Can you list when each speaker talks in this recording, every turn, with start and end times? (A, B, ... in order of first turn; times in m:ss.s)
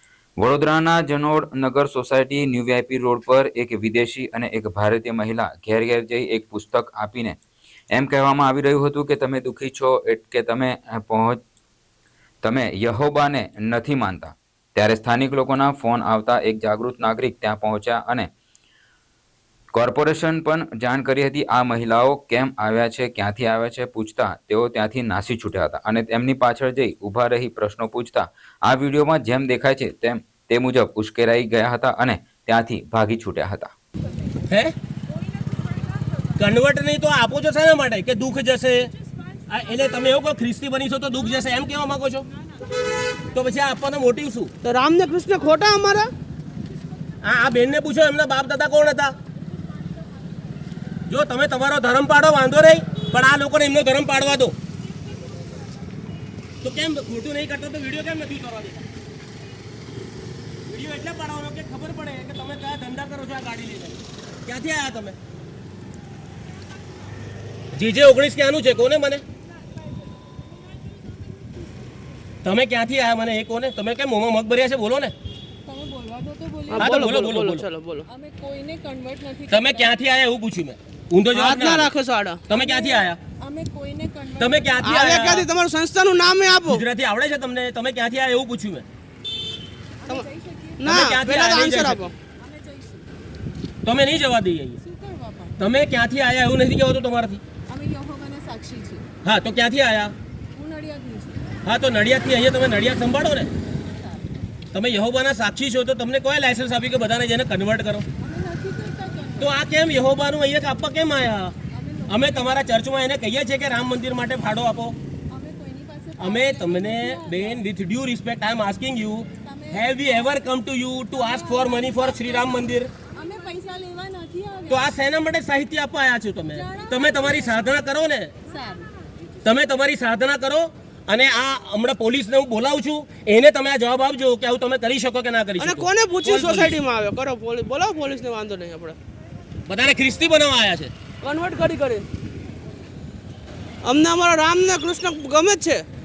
0:00.4-0:07.4 A
0:07.9-0:11.4 A
0:12.4-0:18.3 A
0:19.7-0:33.7 A
0:36.4-0:38.9 B
0:39.5-0:42.2 B
0:43.3-0:44.5 B
0:44.6-0:46.1 C
0:47.2-0:49.1 B
0:51.1-0:54.5 B
0:56.6-0:58.8 B
1:00.7-1:05.2 B
1:07.7-1:09.2 B
1:12.4-1:15.1 B
1:15.7-1:16.9 D
1:16.7-1:18.1 C
1:16.8-1:17.6 B
1:18.1-1:19.9 D
1:19.5-1:21.9 B
1:21.3-1:22.4 C
1:22.5-1:23.2 B
1:22.5-1:24.9 D
1:24.4-1:25.5 B
1:24.8-1:26.8 C
1:26.6-1:28.8 B
1:30.1-1:30.8 D
1:30.8-1:32.1 C
1:30.8-1:32.1 B
1:32.4-1:33.0 D
1:33.8-1:34.8 B
1:34.9-1:35.5 D
1:35.6-1:37.4 B
1:37.7-1:39.0 D
1:39.2-1:40.1 B
1:40.6-1:41.5 D
1:41.6-1:43.5 B
1:44.7-1:48.0 B
1:48.2-1:49.5 D
1:49.4-1:51.5 B
1:51.8-1:52.3 D
1:52.1-1:55.0 B
1:55.3-1:57.6 D
1:56.2-2:02.9 B
1:59.5-1:59.9 D
2:01.2-2:04.8 D
2:04.7-2:08.3 B
2:06.6-2:07.6 D
2:08.5-2:08.9 D
2:09.4-2:16.8 B
2:15.6-2:19.0 C
2:19.7-2:20.9 B
2:21.2-2:22.0 C
2:23.8-2:25.8 C